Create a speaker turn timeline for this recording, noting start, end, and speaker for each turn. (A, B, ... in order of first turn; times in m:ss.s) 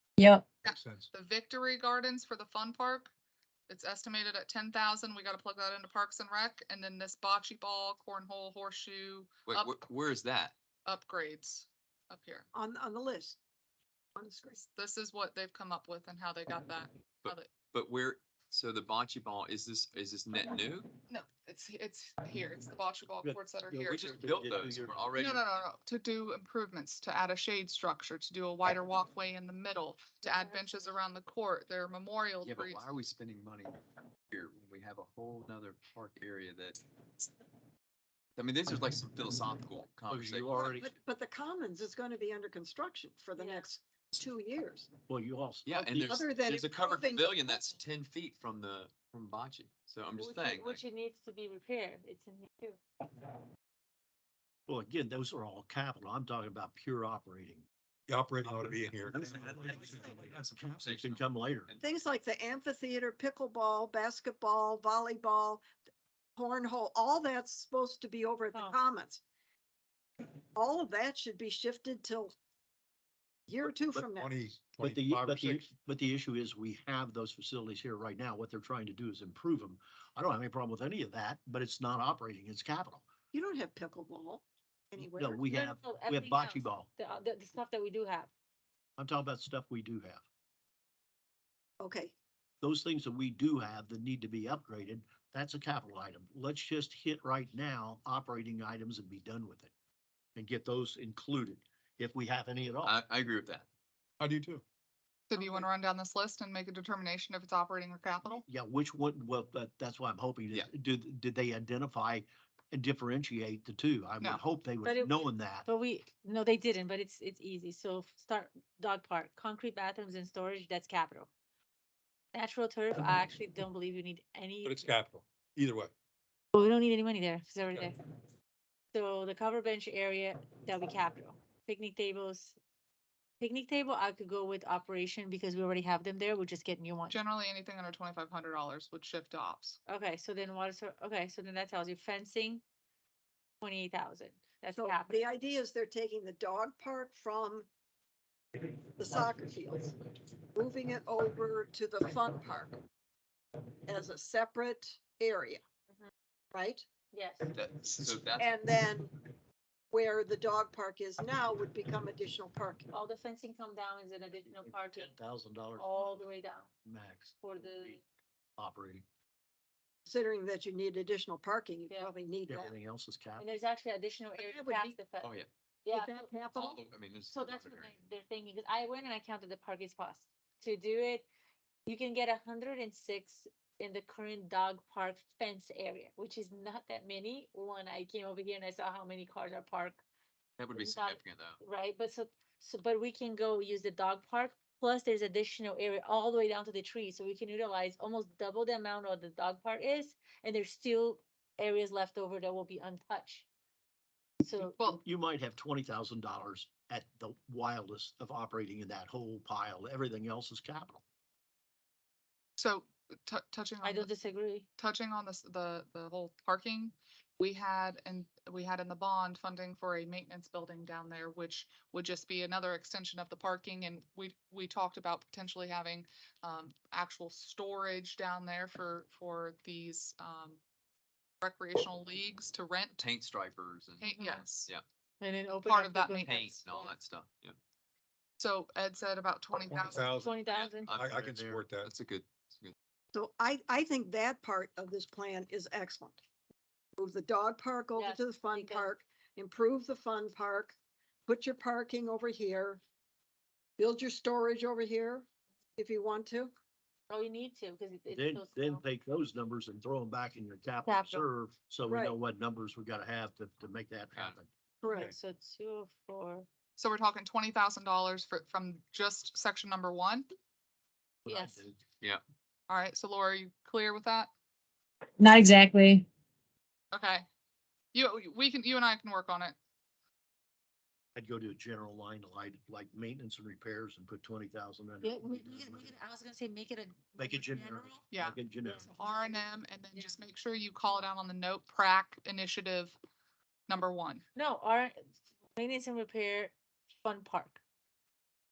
0:00.6-0:01.1 A
0:00.6-0:03.1 B
0:03.7-0:09.7 B
0:09.5-0:10.5 C
0:10.8-0:12.5 B
0:12.5-0:13.4 D
0:14.1-0:14.6 D
0:14.6-0:17.5 B
0:17.2-0:20.9 C
0:21.1-0:24.1 B
0:23.2-0:25.0 E
0:23.9-0:25.7 C
0:25.2-0:32.9 B
0:30.2-0:30.7 F
0:32.4-0:36.8 C
0:38.4-0:40.7 C
0:40.1-0:40.9 E
0:40.5-0:44.9 D
0:43.4-0:43.7 F
0:45.1-0:46.1 E
0:45.6-0:50.8 C
0:46.0-0:47.7 D
0:50.2-0:52.8 F
0:54.7-0:57.6 E
0:58.1-1:00.3 A
0:58.4-1:01.7 E
0:59.5-0:59.7 C
1:00.3-1:01.8 C
1:01.8-1:05.7 D
1:06.4-1:09.2 D
1:08.5-1:08.8 F
1:10.5-1:12.3 D
1:13.5-1:14.3 D
1:14.0-1:15.6 A
1:14.8-1:23.1 E
1:23.3-1:25.5 D
1:25.0-1:26.9 E
1:25.5-1:28.3 F
1:29.0-1:30.2 E
1:31.8-1:32.1 D
1:32.6-1:39.7 E
1:40.4-1:43.0 E
1:42.8-1:43.6 C
1:44.2-1:44.6 A
1:45.3-1:48.4 B
1:45.4-1:45.6 F
1:48.2-1:55.7 E
1:54.8-2:01.3 F
2:02.3-2:04.8 F
2:04.6-2:05.9 A
2:06.5-2:08.0 F
2:08.9-2:12.5 F
2:13.4-2:17.2 F
2:17.1-2:19.8 B
2:19.9-2:22.6 F
2:23.6-2:25.2 F
2:24.7-2:27.7 D
2:29.0-2:29.9 D
2:30.5-2:32.8 D
2:33.8-2:35.6 D
2:36.5-2:36.8 D
2:37.1-2:37.5 F
2:37.5-2:38.6 C
2:38.4-2:39.1 D
2:39.9-2:42.9 D
2:42.9-2:45.1 F
2:44.5-2:46.2 E
2:45.8-2:46.7 F
2:46.8-2:48.0 E
2:47.4-2:48.0 F
2:48.6-2:49.0 E
2:50.1-2:52.7 D
2:51.9-2:52.1 F
2:52.5-2:53.4 E
2:53.4-2:55.3 F
2:54.4-2:55.0 D
2:55.2-2:55.5 C
2:55.8-2:56.2 F
2:55.9-2:56.8 D
2:56.5-2:57.9 C
2:57.3-3:01.2 F
3:01.8-3:10.0 F
3:10.6-3:11.6 C
3:10.7-3:23.4 F
3:24.4-3:24.8 F
3:24.6-3:25.0 B
3:24.8-3:31.0 E
3:32.6-3:34.1 B
3:33.8-3:34.7 F
3:34.8-3:50.6 B
3:51.4-3:53.0 B
3:53.0-3:54.8 C
3:54.0-3:54.7 B
3:54.2-3:54.4 F
3:55.2-3:56.4 F
3:55.6-3:56.7 B
3:56.2-3:57.6 C
3:58.4-4:00.1 B
3:59.7-4:00.4 A
4:00.1-4:00.9 F
4:00.4-4:01.2 C
4:00.9-4:01.9 A
4:01.0-4:01.7 E
4:01.8-4:02.7 C
4:03.1-4:06.2 D
4:07.0-4:10.8 D
4:07.9-4:08.9 F
4:11.3-4:12.8 D
4:13.8-4:15.2 D
4:15.8-4:16.5 D
4:17.1-4:18.8 F
4:18.1-4:24.5 E
4:20.8-4:21.2 F
4:21.9-4:22.1 D
4:24.8-4:25.1 D
4:24.9-4:26.5 F
4:26.8-4:30.3 B
4:31.2-4:31.8 E
4:31.3-4:31.7 F
4:32.7-4:34.3 B
4:35.2-4:36.0 F
4:36.9-4:37.2 B
4:37.9-4:39.6 B
4:41.2-4:45.9 E
4:45.0-4:48.0 F
4:47.2-4:48.9 E
4:48.1-4:53.0 B
4:48.6-4:49.3 F
4:53.7-4:54.2 B
4:54.4-4:57.6 F